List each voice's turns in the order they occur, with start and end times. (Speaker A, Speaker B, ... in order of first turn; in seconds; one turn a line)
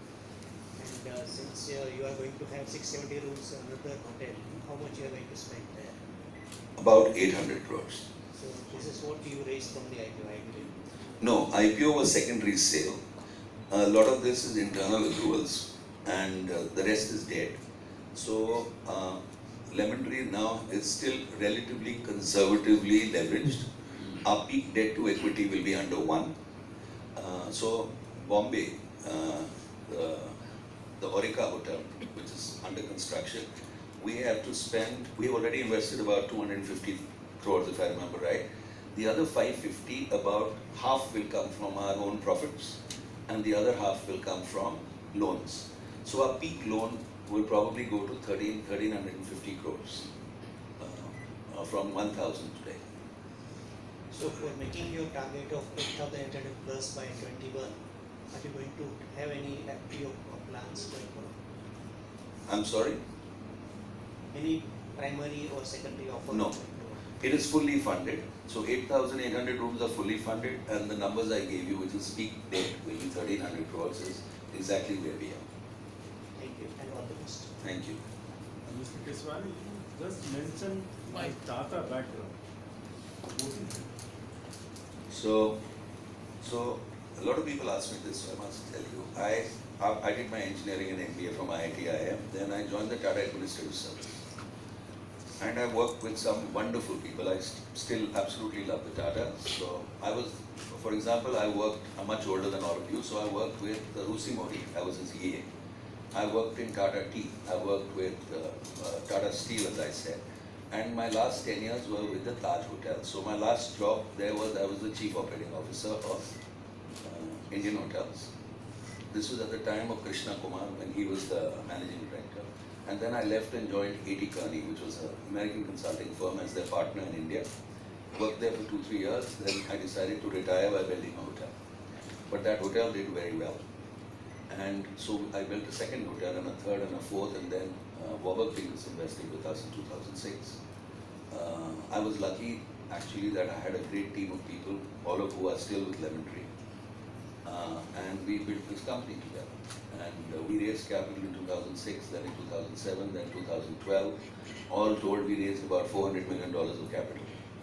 Speaker A: 0.8-6.0
Speaker B: 6.8-8.1
Speaker A: 8.3-10.7
Speaker B: 11.2-13.0
Speaker B: 13.7-17.6
Speaker B: 18.1-23.7
Speaker B: 24.2-26.3
Speaker B: 27.1-30.4
Speaker B: 31.0-33.5
Speaker B: 34.0-50.1
Speaker B: 50.8-52.8
Speaker A: 54.1-57.7
Speaker A: 58.3-61.4
Speaker B: 62.5-63.0
Speaker A: 64.3-67.0
Speaker B: 67.2-75.4
Speaker A: 76.4-77.5
Speaker B: 77.6-78.0
Speaker C: 78.7-82.3
Speaker C: 83.3-83.9
Speaker B: 85.1-85.6
Speaker B: 86.4-94.2
Speaker B: 95.4-105.5
Speaker B: 106.1-110.2
Speaker B: 110.7-116.2
Speaker B: 117.0-118.3
Speaker B: 119.1-127.4
Speaker B: 128.1-131.5
Speaker B: 132.3-133.6
Speaker B: 134.5-140.6
Speaker B: 141.3-146.5
Speaker B: 147.4-154.2
Speaker B: 154.7-157.3